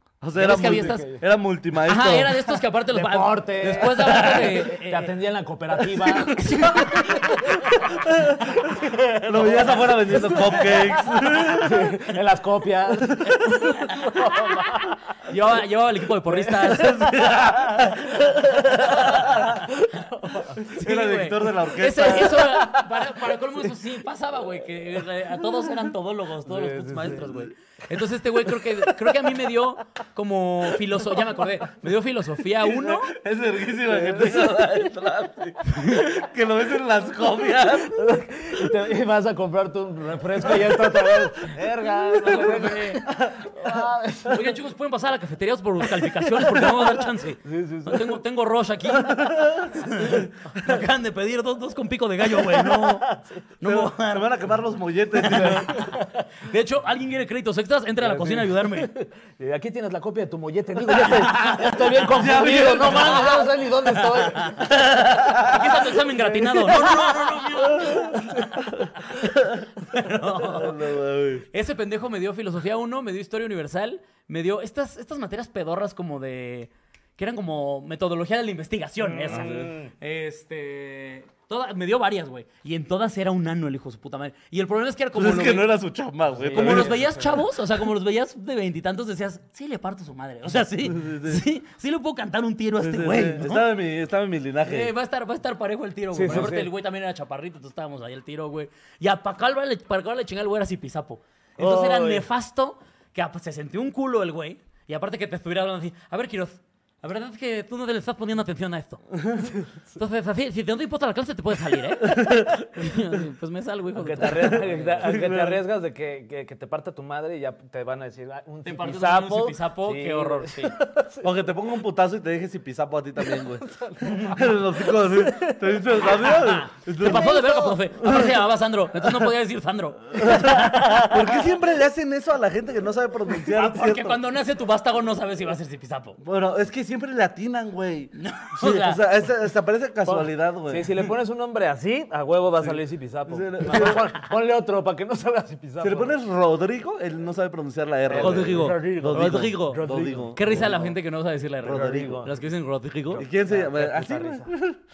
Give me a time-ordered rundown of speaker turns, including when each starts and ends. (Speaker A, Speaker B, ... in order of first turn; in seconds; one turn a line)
Speaker A: 0.2-2.4
Speaker B: 0.3-1.2
Speaker C: 0.9-1.2
Speaker B: 1.8-5.2
Speaker C: 2.9-8.1
Speaker A: 6.1-6.6
Speaker B: 6.2-8.0
Speaker A: 8.0-11.9
Speaker C: 8.6-15.0
Speaker B: 13.7-14.4
Speaker B: 15.2-18.1
Speaker A: 16.5-19.6
Speaker B: 18.8-19.7
Speaker C: 18.8-20.6
Speaker B: 20.3-33.1
Speaker A: 20.6-22.5
Speaker C: 22.4-22.8
Speaker C: 26.4-27.3
Speaker A: 32.6-38.1
Speaker C: 33.9-34.6
Speaker B: 35.6-36.0
Speaker C: 37.9-44.5
Speaker A: 40.7-43.7
Speaker B: 42.1-43.0
Speaker B: 44.2-54.4
Speaker C: 47.4-48.2
Speaker A: 49.0-50.3
Speaker C: 52.5-53.4
Speaker A: 53.6-55.8
Speaker C: 55.2-56.2
Speaker B: 55.3-58.9
Speaker C: 58.0-64.7
Speaker B: 60.9-61.8
Speaker A: 61.4-63.5
Speaker B: 62.4-64.8
Speaker A: 64.7-65.7
Speaker B: 65.3-68.3
Speaker C: 66.1-68.6
Speaker A: 67.7-68.2
Speaker B: 69.1-71.0
Speaker A: 70.4-71.5
Speaker B: 71.5-85.7
Speaker C: 79.1-79.9
Speaker A: 79.3-79.7
Speaker A: 85.1-87.1
Speaker C: 86.3-87.4
Speaker B: 86.5-93.7
Speaker A: 90.8-91.4
Speaker A: 92.8-94.9
Speaker B: 94.6-109.1
Speaker C: 96.1-96.7
Speaker C: 101.6-102.2
Speaker A: 109.2-109.5
Speaker B: 110.0-115.1
Speaker A: 112.0-112.7
Speaker C: 114.0-121.2
Speaker A: 115.0-115.6
Speaker B: 118.6-120.8
Speaker A: 121.2-128.4
Speaker C: 123.4-126.4
Speaker B: 126.3-131.3
Speaker C: 127.0-127.7
Speaker A: 129.0-129.3
Speaker A: 130.1-134.2
Speaker B: 133.4-136.2
Speaker A: 136.2-141.0
Speaker B: 138.2-139.0
Speaker C: 140.1-146.2
Speaker A: 143.3-144.1
Speaker A: 145.8-150.9
Speaker C: 148.1-150.9
Speaker B: 148.1-153.2
Speaker A: 151.6-152.2
Speaker C: 151.6-152.3
Speaker A: 153.1-154.8
Speaker C: 153.4-154.5